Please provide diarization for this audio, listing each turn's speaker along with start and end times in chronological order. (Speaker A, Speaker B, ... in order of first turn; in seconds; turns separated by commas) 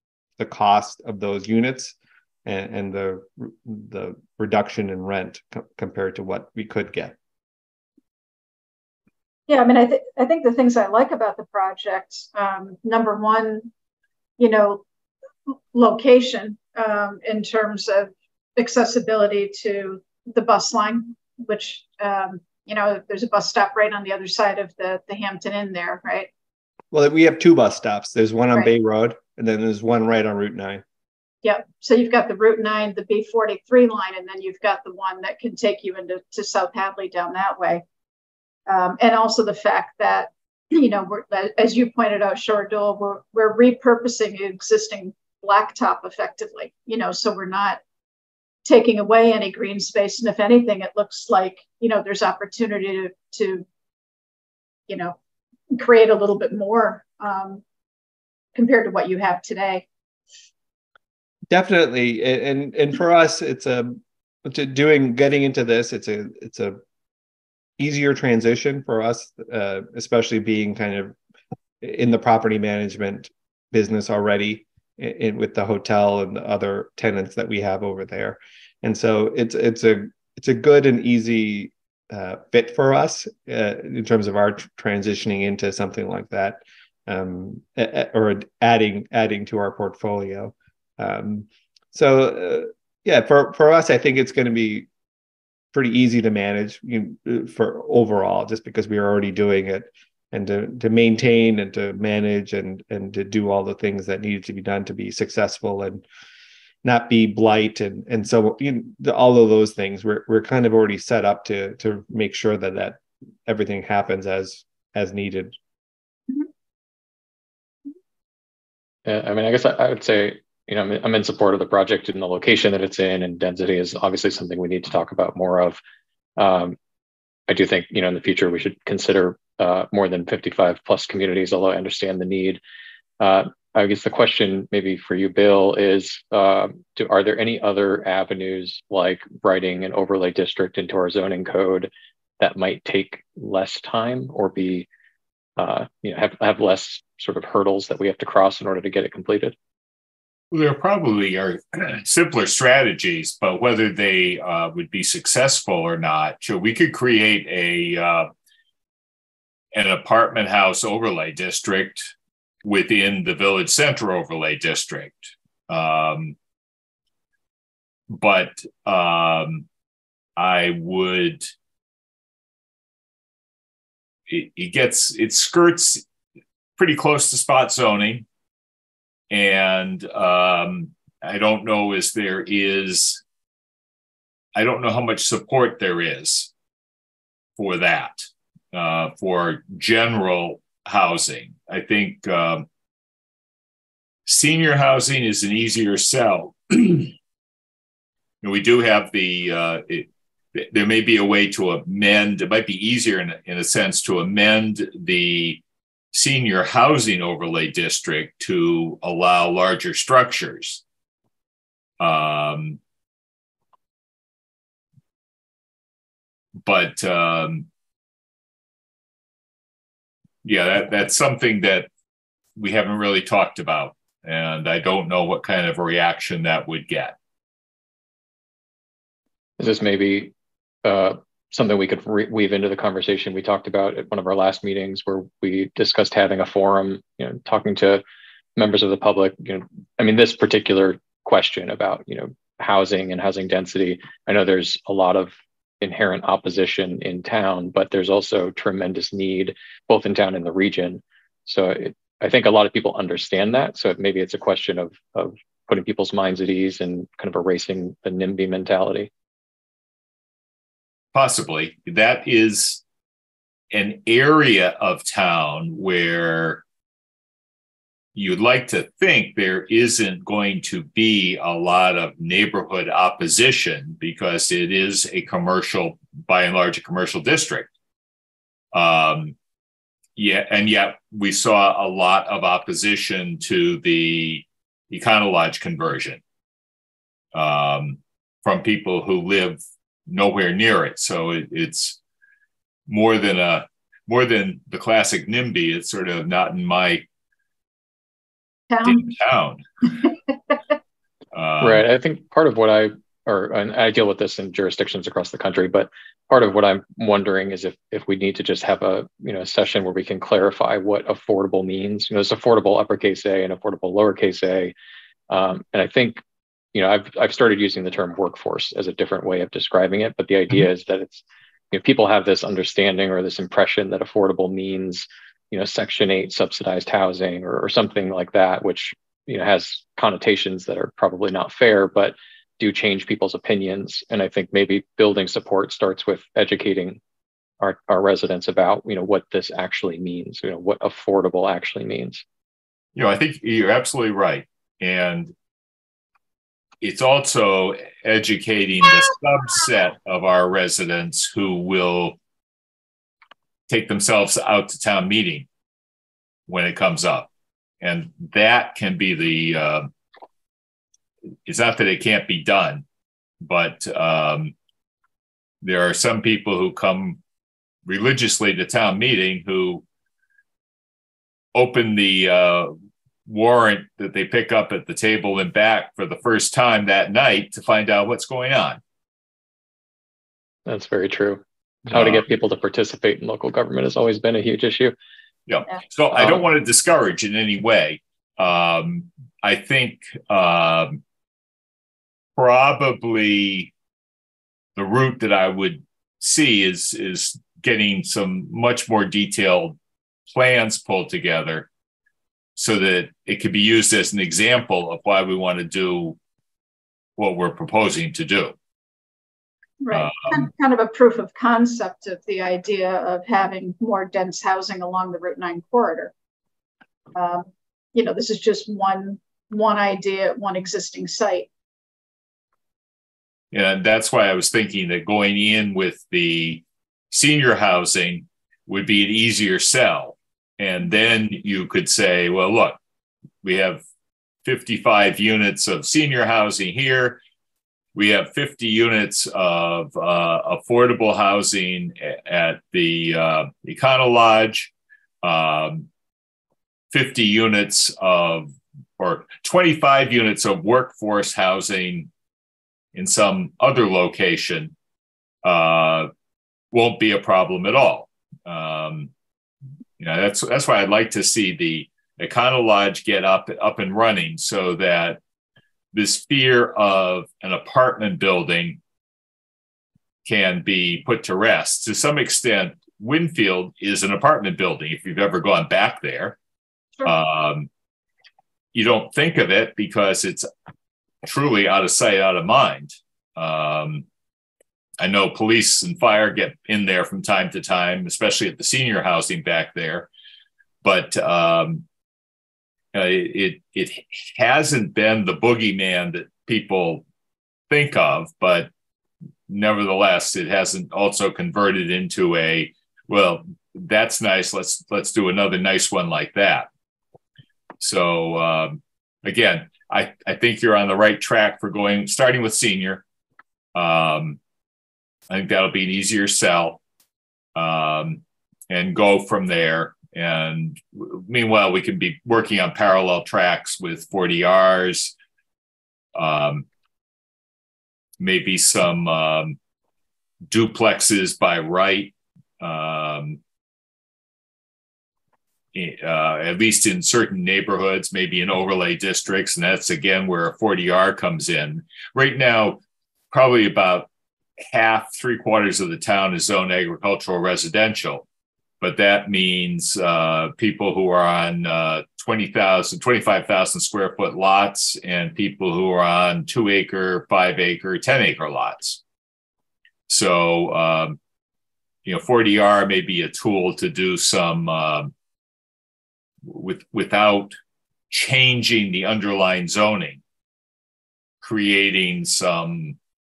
Speaker A: 0.4-7.2, Speaker B: 9.5-13.7, Speaker B: 14.4-14.8, Speaker B: 15.5-26.3, Speaker A: 26.9-30.8, Speaker B: 31.4-37.8, Speaker B: 38.7-47.8, Speaker B: 48.6-53.6, Speaker B: 54.9-55.1, Speaker B: 55.7-57.6, Speaker B: 58.5-59.9, Speaker A: 61.5-66.8, Speaker A: 67.8-71.2, Speaker A: 71.8-94.9, Speaker A: 95.7-106.0, Speaker A: 106.8-115.6, Speaker C: 119.1-125.8, Speaker C: 126.4-126.8, Speaker C: 127.5-132.6, Speaker C: 133.2-144.9, Speaker C: 145.6-149.6, Speaker D: 150.5-158.3, Speaker D: 159.7-162.1, Speaker D: 162.6-166.3, Speaker D: 168.1-169.7, Speaker D: 170.4-171.5, Speaker D: 174.3-176.0, Speaker D: 176.8-178.2, Speaker D: 179.3-183.2, Speaker D: 184.6-186.5, Speaker D: 187.6-192.7, Speaker D: 194.3-197.2, Speaker D: 198.4-205.6, Speaker D: 206.1-210.8, Speaker D: 212.0-212.8, Speaker D: 216.6-217.7, Speaker D: 220.4-221.9, Speaker D: 222.6-227.2, Speaker C: 229.6-230.3, Speaker C: 230.8-238.0, Speaker C: 238.6-259.1, Speaker D: 261.1-262.8, Speaker D: 263.7-266.6, Speaker D: 268.1-277.7, Speaker D: 278.7-279.4, Speaker D: 280.2-286.2, Speaker D: 287.3-292.0, Speaker D: 292.9-297.1, Speaker B: 298.7-299.1, Speaker D: 298.8-299.6, Speaker D: 301.3-301.9, Speaker C: 301.6-314.7, Speaker C: 315.3-316.2, Speaker C: 316.7-337.0, Speaker C: 337.6-342.2, Speaker D: 343.0-345.3, Speaker D: 346.8-352.2, Speaker D: 353.7-355.5, Speaker D: 356.5-357.3, Speaker D: 357.8-359.9, Speaker D: 361.5-362.8, Speaker D: 363.4-364.5, Speaker D: 365.6-367.2, Speaker D: 367.9-369.8, Speaker D: 371.6-372.7, Speaker D: 373.3-378.8, Speaker C: 380.7-385.0, Speaker D: 381.9-382.2, Speaker D: 385.5-391.0, Speaker C: 386.2-386.4, Speaker D: 392.4-393.7, Speaker D: 394.8-399.8, Speaker D: 400.3-401.7, Speaker D: 402.6-406.2, Speaker D: 407.2-408.5, Speaker B: 409.8-416.1, Speaker D: 409.9-410.5, Speaker B: 417.1-421.5, Speaker D: 423.5-432.8, Speaker D: 433.4-433.8, Speaker D: 434.4-437.2, Speaker D: 437.9-444.7, Speaker D: 445.2-445.9, Speaker D: 446.9-452.1, Speaker D: 452.9-454.7, Speaker D: 455.4-456.1, Speaker D: 456.7-459.1, Speaker D: 460.0-465.2, Speaker D: 465.9-468.8, Speaker D: 470.2-476.4, Speaker D: 477.1-477.7, Speaker D: 478.7-480.5, Speaker D: 481.2-484.1, Speaker D: 485.0-490.1, Speaker D: 490.8-491.9, Speaker D: 492.9-497.1, Speaker D: 497.7-498.7, Speaker D: 499.5-506.7, Speaker D: 507.8-513.0, Speaker D: 513.8-514.4, Speaker D: 515.3-516.8, Speaker D: 517.6-525.1, Speaker D: 526.1-526.7, Speaker D: 528.2-529.6, Speaker D: 530.5-533.4, Speaker D: 535.7-544.1, Speaker D: 544.6-548.2, Speaker D: 548.8-559.0, Speaker D: 560.1-561.2, Speaker D: 562.0-565.1, Speaker D: 566.5-567.6, Speaker D: 568.1-570.2, Speaker D: 571.4-573.0